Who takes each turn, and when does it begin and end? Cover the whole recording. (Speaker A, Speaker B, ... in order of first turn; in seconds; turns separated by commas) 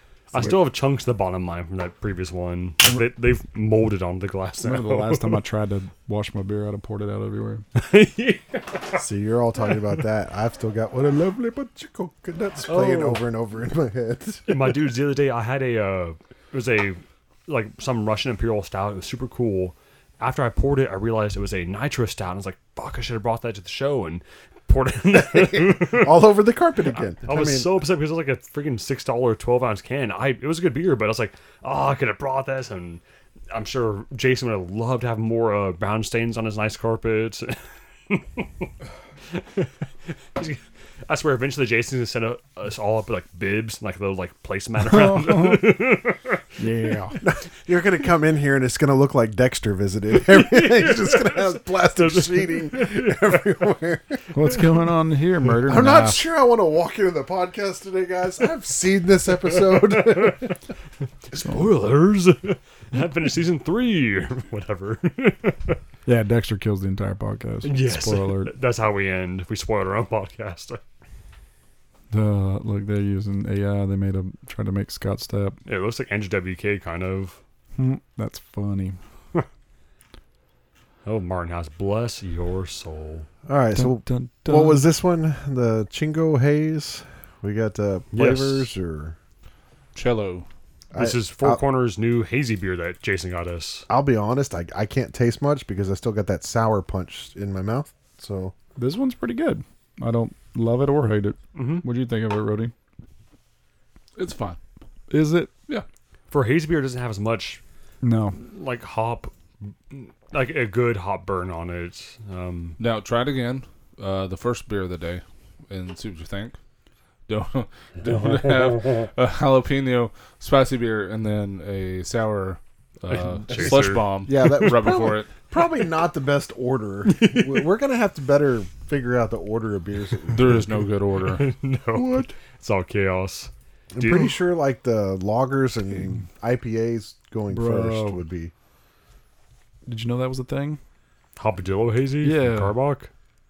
Speaker A: 0.3-5.4, Speaker B: 2.8-3.1, Speaker B: 4.6-7.6, Speaker A: 7.7-9.1, Speaker C: 9.0-14.8, Speaker A: 12.7-13.2, Speaker A: 14.5-26.3, Speaker C: 25.1-27.7, Speaker A: 27.2-38.7, Speaker A: 39.3-39.7, Speaker A: 40.4-46.4, Speaker B: 44.9-45.8, Speaker B: 46.6-47.2, Speaker C: 47.2-54.6, Speaker A: 50.1-53.4, Speaker B: 54.3-56.2, Speaker C: 55.6-60.5, Speaker A: 59.7-60.5, Speaker A: 61.3-65.8, Speaker B: 61.4-61.6, Speaker B: 66.1-68.5, Speaker A: 67.6-70.8, Speaker B: 72.1-75.6, Speaker A: 75.7-77.4, Speaker B: 77.8-79.0, Speaker A: 81.0-83.3, Speaker C: 83.5-89.2, Speaker B: 83.7-84.9, Speaker A: 88.1-88.7, Speaker D: 89.9-90.5, Speaker C: 90.9-91.6, Speaker A: 90.9-93.9, Speaker C: 93.9-98.5, Speaker B: 98.8-102.7, Speaker A: 101.5-101.8, Speaker D: 104.2-104.6, Speaker B: 105.1-105.5, Speaker A: 106.3-107.6, Speaker B: 108.0-108.4, Speaker A: 108.4-109.3, Speaker A: 109.9-112.8, Speaker D: 112.8-116.6, Speaker D: 117.3-125.3, Speaker A: 123.1-124.5, Speaker C: 123.5-130.7, Speaker A: 127.1-127.7, Speaker D: 130.3-131.5, Speaker A: 131.1-134.4, Speaker B: 131.9-132.3, Speaker C: 133.9-138.5, Speaker B: 137.5-138.2, Speaker B: 139.9-140.8, Speaker A: 141.4-143.1, Speaker B: 142.2-142.7